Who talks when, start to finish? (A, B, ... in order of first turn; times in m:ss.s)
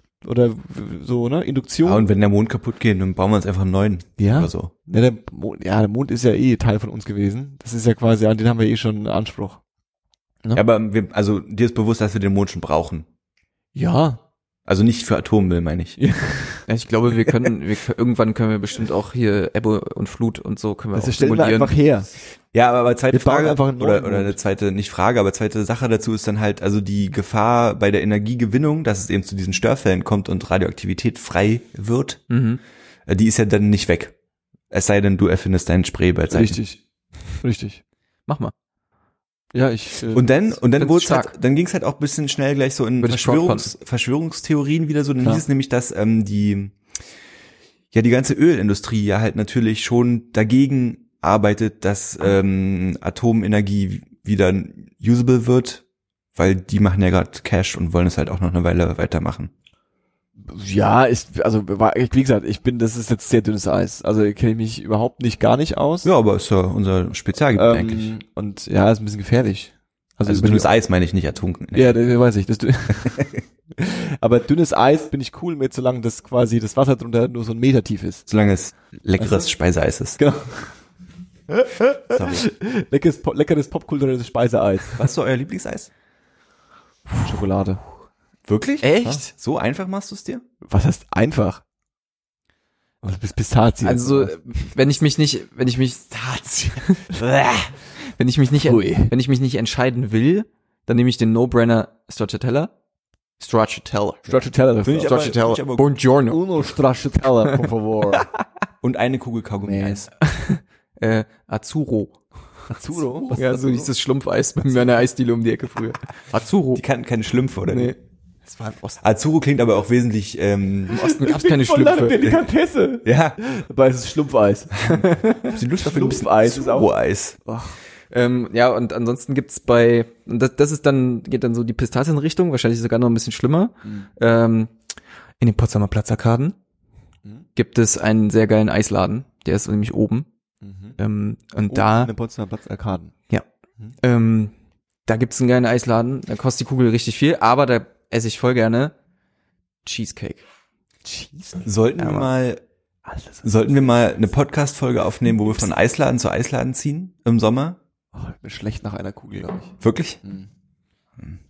0:00.2-0:02.0 A
0:01.8-0:04.7 B
0:04.2-0:09.6 A
0:10.5-0:13.0 B
0:13.7-0:14.2 A
0:14.6-0:16.0 B
0:16.0-0:16.6 A
0:16.7-0:21.7 C
0:20.9-0:22.1 A
0:22.5-0:32.2 B
0:23.1-0:24.4 A
0:32.3-0:32.6 C
0:33.1-0:34.1 B
0:34.7-0:36.6 B
0:36.3-0:36.8 A
0:37.3-0:37.8 A
0:38.3-0:38.5 C
0:39.5-0:40.3 A
0:40.1-0:46.8 B
0:40.7-0:41.3 C
0:43.0-0:43.7 C
0:47.9-0:55.8 B
0:56.4-0:59.5 B
1:00.4-1:06.1 A
1:06.0-1:08.1 B
1:07.5-1:10.7 A
1:10.2-1:11.9 B
1:11.7-1:18.3 A
1:18.3-1:20.2 B
1:19.2-1:19.4 A
1:20.2-1:20.7 A
1:21.5-1:25.0 A
1:22.1-1:22.4 B
1:25.0-1:25.9 B
1:27.2-1:27.8 A
1:28.5-1:30.4 B
1:28.8-1:29.3 C
1:30.6-1:31.6 A
1:33.0-1:34.3 A
1:33.8-1:37.2 C
1:37.1-1:37.7 A
1:38.0-1:42.7 C
1:38.6-1:39.1 A
1:43.4-1:46.4 C
1:44.3-1:45.3 A
1:44.8-1:45.9 B
1:46.3-1:48.3 A
1:48.8-1:50.1 B
1:49.6-1:50.1 A
1:50.2-1:52.2 C
1:52.7-1:53.9 A
1:53.3-1:56.8 C
1:56.7-1:57.9 B
1:57.7-1:58.0 C
1:58.5-1:59.0 A
1:59.0-2:01.1 B
2:00.9-2:02.2 C
2:01.0-2:06.9 A
2:03.0-2:03.4 B
2:04.8-2:07.4 B
2:07.4-2:07.8 A
2:08.1-2:14.7 C
2:13.8-2:14.1 A
2:15.4-2:16.5 C
2:17.6-2:20.3 C
2:20.6-2:21.0 A
2:21.0-2:22.1 C
2:21.7-2:23.1 A
2:24.0-2:24.5 C
2:25.0-2:28.9 C
2:29.8-2:30.4 C
2:31.0-2:31.6 A
2:31.6-2:32.6 B
2:32.0-2:32.3 C
2:33.1-2:33.4 A
2:33.4-2:37.8 B
2:38.1-2:40.5 A
2:39.8-2:40.2 B